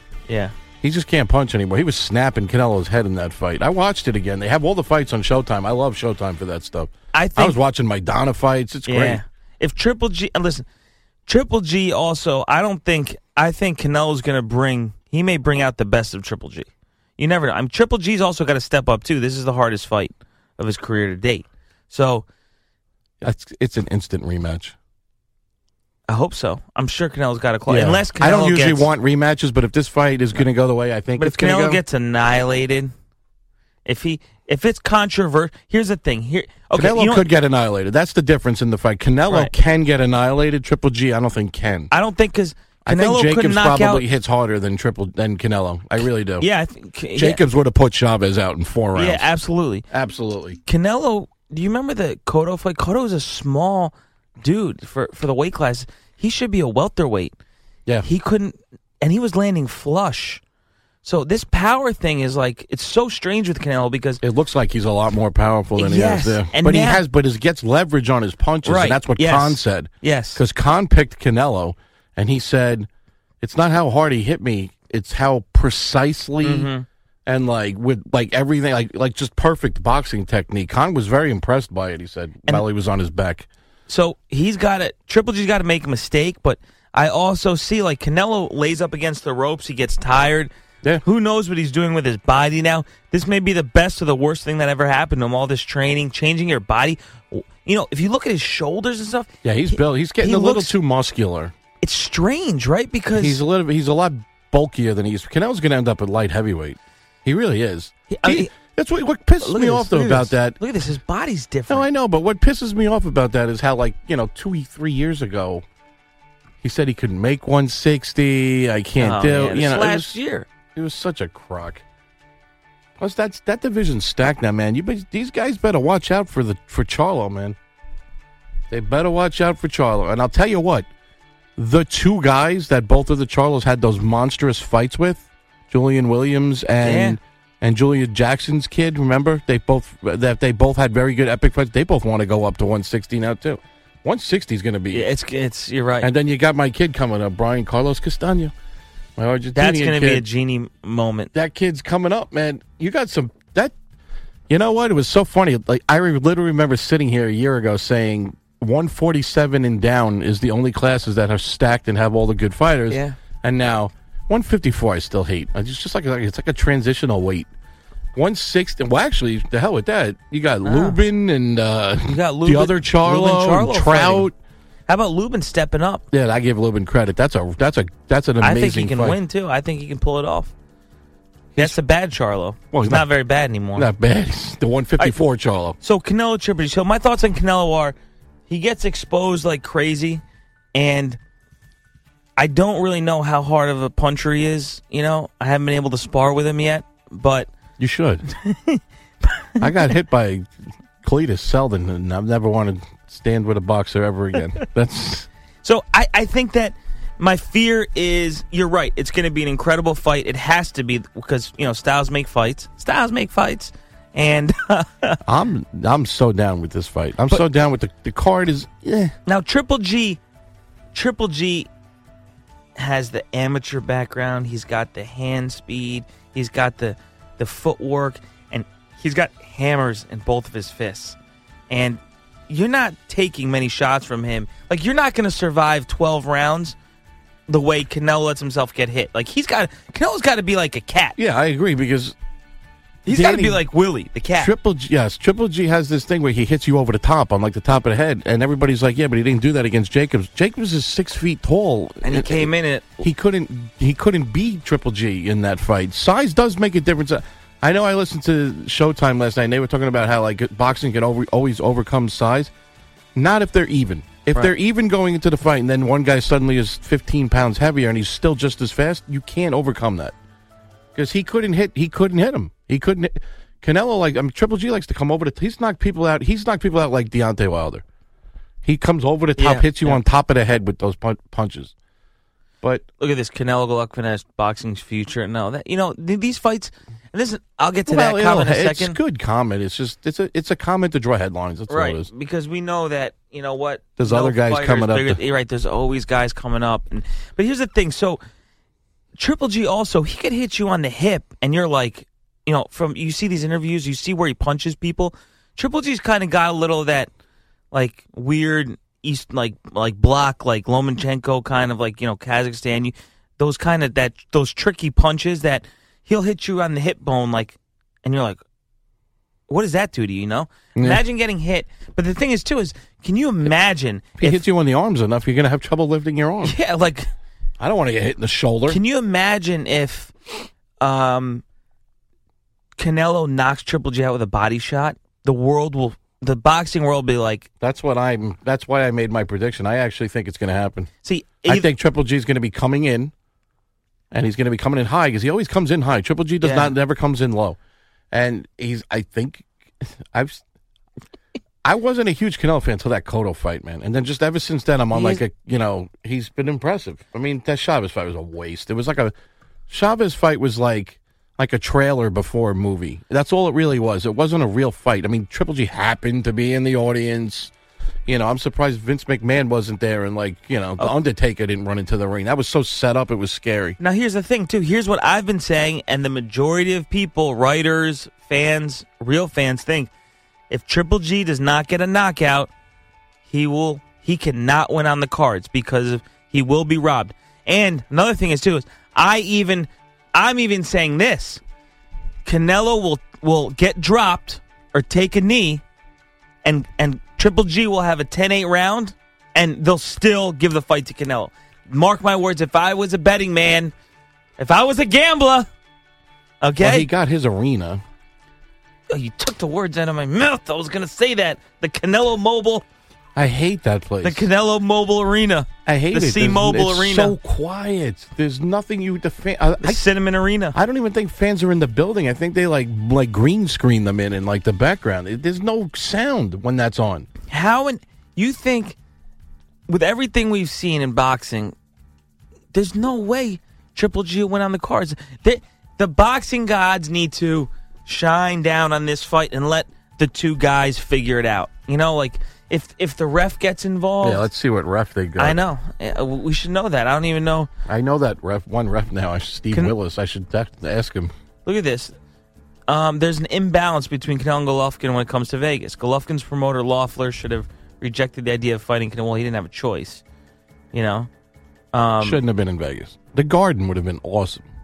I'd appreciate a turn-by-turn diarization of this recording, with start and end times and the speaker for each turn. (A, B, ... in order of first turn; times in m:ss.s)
0:00.3-0:00.6 A
0:00.8-0:09.2 B
0:07.1-0:07.6 A
0:08.9-0:10.7 A
0:11.3-0:22.2 A
0:23.2-0:24.8 B
0:26.1-0:28.9 A
0:27.7-0:31.8 B
0:31.2-0:32.9 A
0:33.9-0:37.3 A
0:36.7-0:41.9 B
0:39.3-0:39.5 A
0:41.9-0:44.1 A
0:42.8-0:46.5 B
0:46.4-0:47.4 A
0:47.2-0:49.3 B
0:49.0-0:49.8 A
0:49.9-0:50.6 B
0:50.7-0:57.4 A
0:58.0-1:00.4 A
1:01.0-1:04.2 A
1:04.2-1:12.9 B
1:05.8-1:07.0 A
1:08.6-1:10.4 A
1:13.4-1:16.7 B
1:16.4-1:16.8 A
1:17.3-1:23.5 B
1:23.9-1:30.5 A
1:31.0-1:40.7 A
1:39.4-1:41.5 B
1:41.8-1:43.4 A
1:43.2-1:50.6 B
1:48.1-1:48.5 A
1:49.4-1:51.9 A
1:51.7-1:55.6 B
1:56.6-2:00.2 B
1:59.0-2:00.5 A
2:00.8-2:01.8 B
2:03.0-2:07.6 B
2:08.7-2:10.9 B
2:11.6-2:25.1 B
2:16.8-2:17.2 A
2:24.9-2:26.1 A
2:26.0-2:28.5 B
2:29.2-2:30.2 B
2:29.5-2:31.3 A
2:31.3-2:33.8 B
2:34.5-2:47.5 B
2:42.9-2:43.2 A
2:48.2-2:54.4 B
2:50.6-2:51.0 A
2:52.1-2:54.3 A
2:54.9-2:56.0 A
2:56.1-2:59.2 B
2:58.4-3:00.5 A
3:01.6-3:03.9 A
3:02.7-3:03.1 B
3:03.8-3:05.8 B
3:05.8-3:08.0 A
3:08.5-3:10.2 A
3:10.7-3:11.2 A
3:12.4-3:17.5 A
3:17.8-3:18.2 B
3:18.4-3:18.8 A
3:19.4-3:19.7 A
3:19.6-3:20.5 B
3:21.0-3:25.3 B
3:25.6-3:35.2 A
3:35.2-3:39.2 B
3:39.3-3:40.2 A
3:40.9-3:41.7 A
3:42.8-3:51.2 A
3:51.7-3:56.8 A
3:57.5-4:01.2 A
4:01.2-4:02.2 B
4:03.1-4:04.5 A
4:03.1-4:03.6 B
4:04.4-4:12.5 B
4:12.0-4:13.0 A
4:13.0-4:22.5 B
4:23.2-4:30.2 B
4:31.0-4:37.8 B
4:38.6-4:41.7 B
4:39.4-4:40.0 A
4:43.0-4:49.0 A
4:47.9-4:52.1 B
4:51.7-4:58.2 A
4:54.0-4:55.2 B
4:59.2-5:07.1 A
5:07.7-5:18.4 A
5:19.5-5:24.5 A
5:20.8-5:21.0 B
5:24.2-5:26.6 B
5:26.4-5:27.1 A
5:27.6-5:28.8 B
5:28.7-5:30.1 A
5:30.8-5:31.4 A
5:32.8-5:37.5 A
5:37.6-5:40.9 B
5:41.0-5:41.7 A
5:41.4-5:43.1 B
5:44.1-5:47.6 B
5:46.4-5:46.7 A
5:48.1-5:50.4 B
5:51.6-5:59.1 B
5:54.9-5:55.2 A
5:59.7-6:07.5 B
6:08.1-6:13.8 B
6:13.8-6:19.9 A
6:20.5-6:22.5 A
6:23.3-6:31.4 A
6:32.2-6:35.6 A
6:36.4-6:43.7 A
6:44.4-6:45.5 A
6:46.4-6:46.9 A
6:46.6-6:47.8 B
6:48.9-6:52.6 A
6:53.2-6:54.3 B
6:54.0-6:57.2 A
6:55.7-6:59.8 B
6:59.6-7:00.6 A
7:00.5-7:07.1 B
7:07.3-7:08.8 A
7:09.7-7:11.6 A
7:12.5-7:24.3 A
7:24.0-7:25.4 B
7:25.2-7:27.5 A
7:27.7-7:31.1 B
7:31.4-7:31.9 A
7:32.7-7:40.0 A
7:40.7-7:41.1 A
7:41.7-7:42.2 A
7:42.0-7:44.5 B